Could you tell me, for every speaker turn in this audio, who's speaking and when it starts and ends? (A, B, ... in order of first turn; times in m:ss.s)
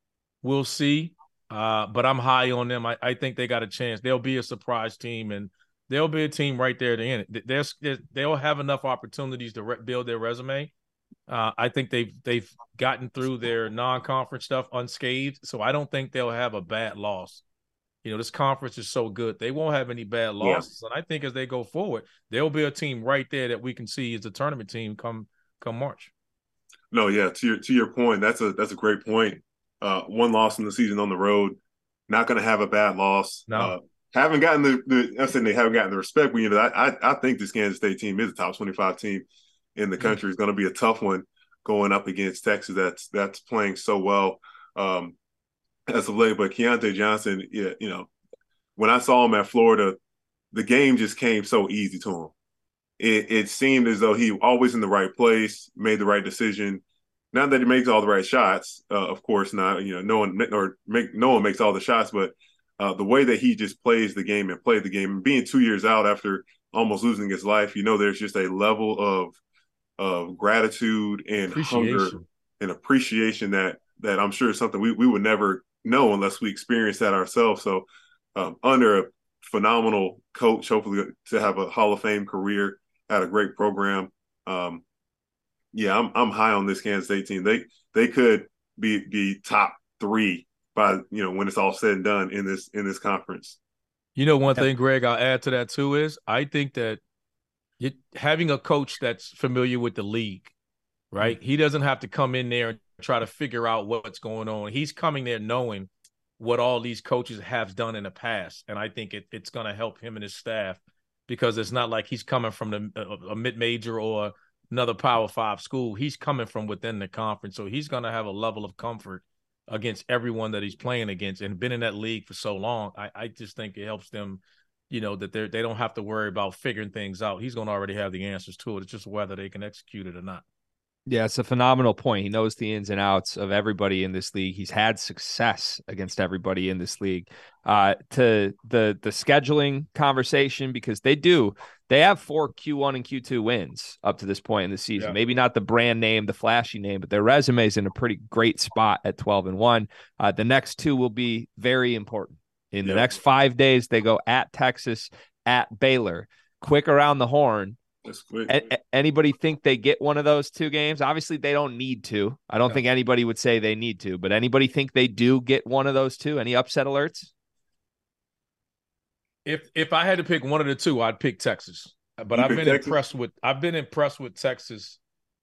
0:00.4-0:10.7 A
0:11.3-0:17.4 A
0:18.0-0:26.1 A
0:26.9-0:31.6 B
0:32.1-0:45.1 B
0:33.5-0:33.7 A
0:45.9-0:48.1 B
0:48.8-0:50.0 B
0:50.5-0:52.3 B
0:53.0-0:56.8 B
0:57.3-1:09.4 B
1:10.0-1:24.8 B
1:11.5-1:12.2 A
1:25.7-1:33.6 B
1:34.2-1:37.0 A
1:37.8-1:40.5 A
1:41.1-2:10.4 A
2:11.1-2:37.8 C
2:32.8-2:33.1 B
2:38.0-2:38.7 B
2:38.5-2:47.3 C
2:49.4-2:55.0 A
2:52.3-2:53.0 B